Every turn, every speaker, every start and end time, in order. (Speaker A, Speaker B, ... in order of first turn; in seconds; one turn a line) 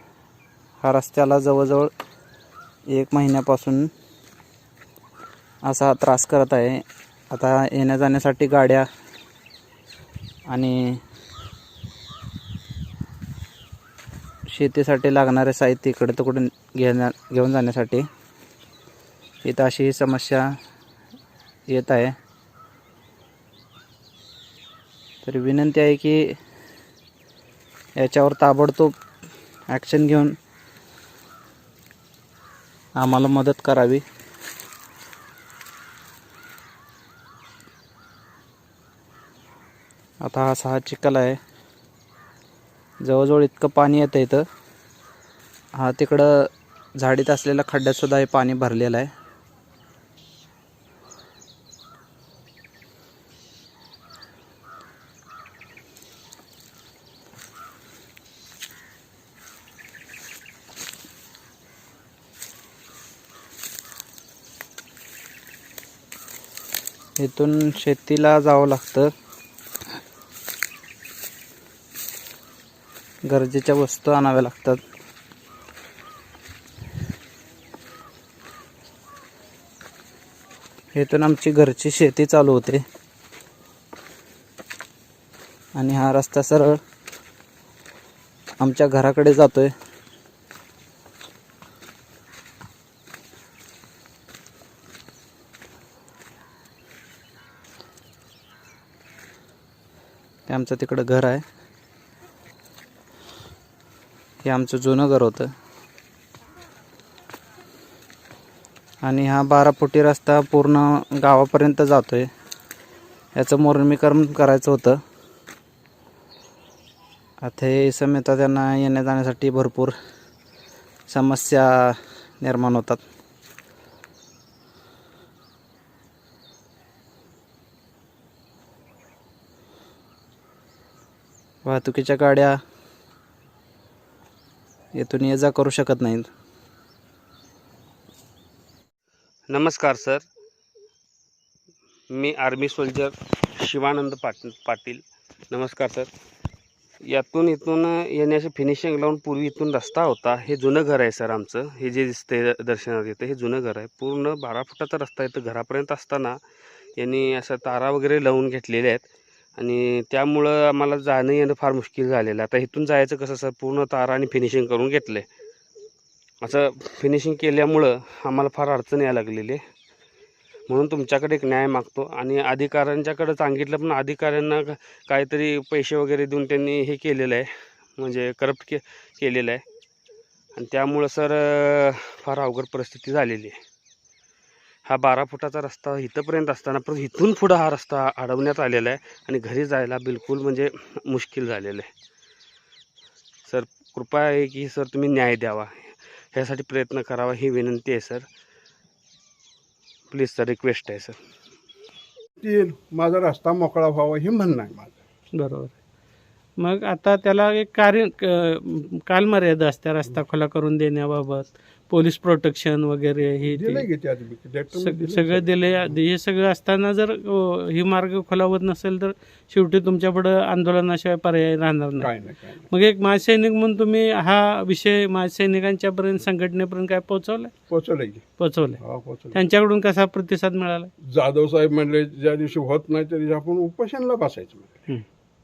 Speaker A: 0.8-1.9
Speaker A: 2.9-3.9
Speaker A: 5.7-8.9
Speaker A: 10.5-11.0
Speaker A: 14.5-18.1
Speaker A: 19.4-20.5
Speaker A: 21.7-22.1
Speaker A: 25.2-26.4
Speaker A: 28.0-28.9
Speaker A: 29.7-30.4
Speaker A: 33.0-34.0
Speaker A: 40.2-41.4
Speaker A: 43.0-44.5
Speaker A: 45.8-49.1
Speaker A: 67.2-69.1
Speaker A: 73.3-74.8
Speaker A: 80.9-82.8
Speaker A: 85.8-86.8
Speaker A: 88.6-89.7
Speaker A: 100.5-101.4
Speaker A: 104.5-105.5
Speaker A: 109.0-112.3
Speaker A: 113.3-115.0
Speaker A: 117.4-120.0
Speaker A: 121.1-123.0
Speaker A: 131.7-132.6
Speaker A: 134.9-136.3
Speaker B: 139.5-140.2
Speaker B: 142.1-146.1
Speaker B: 147.1-156.4
Speaker B: 157.0-159.0
Speaker B: 159.6-165.2
Speaker B: 166.4-169.6
Speaker B: 170.7-179.6
Speaker B: 180.6-183.6
Speaker B: 184.9-191.9
Speaker B: 193.5-198.3
Speaker B: 200.1-201.2
Speaker C: 202.4-205.0
Speaker D: 205.4-205.7
Speaker D: 206.6-213.9
Speaker C: 213.5-216.0
Speaker D: 214.7-222.1
Speaker C: 222.0-222.7
Speaker D: 222.7-227.5
Speaker C: 227.7-229.4
Speaker D: 228.4-228.8
Speaker D: 229.3-230.9
Speaker C: 231.0-234.8